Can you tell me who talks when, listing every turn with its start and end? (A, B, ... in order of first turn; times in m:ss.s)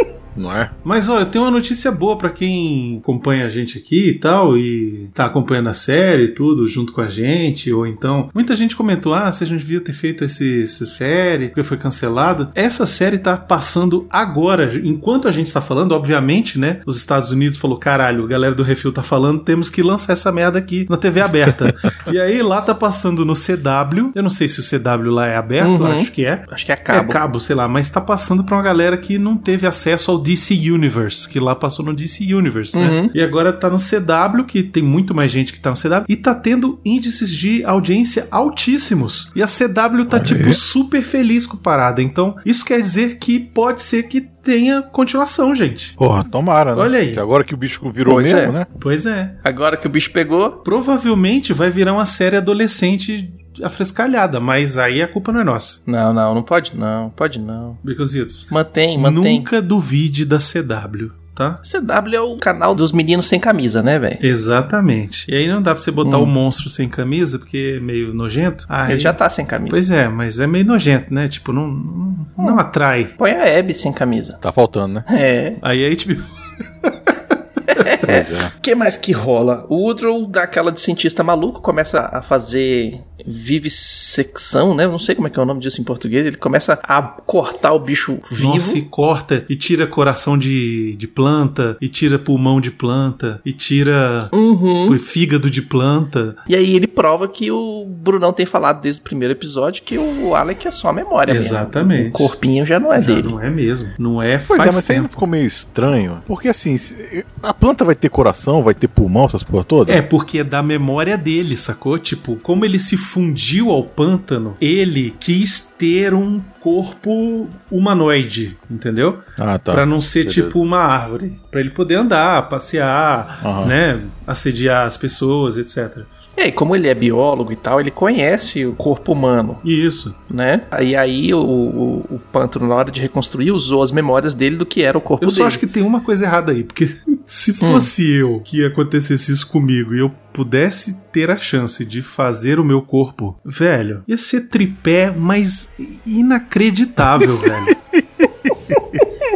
0:00.3-0:00.7 A
0:00.8-0:46.0 B
0:25.6-0:27.2 C
0:32.7-0:33.1 C
0:40.1-0:40.6 A
0:46.0-0:48.7 A
0:46.7-0:47.2 B
0:48.0-0:48.6 C
0:48.7-0:49.4 B
0:49.4-0:50.6 C
0:50.6-0:55.8 B
0:55.8-0:57.8 C
0:57.8-1:01.6 B
0:58.5-0:59.5 C
1:01.6-1:04.2 C
1:04.2-1:13.1 B
1:06.0-1:06.3 C
1:08.9-1:09.8 C
1:13.2-1:14.4 C
1:14.4-1:15.0 A
1:15.1-1:15.6 C
1:15.6-1:16.2 B
1:16.8-1:17.1 B
1:17.7-1:28.8 C
1:18.0-1:18.5 A
1:28.4-1:34.3 B
1:34.3-1:35.0 C
1:34.8-1:36.4 B
1:36.5-1:43.3 C
1:41.3-1:42.3 B
1:43.0-1:45.1 B
1:44.5-1:50.0 A
1:49.8-2:06.1 B
1:59.4-2:00.6 A
2:03.4-2:03.7 A
2:06.4-2:09.6 C
2:09.6-2:10.2 B
2:10.3-2:15.6 C
2:15.2-2:27.8 B
2:17.6-2:17.9 C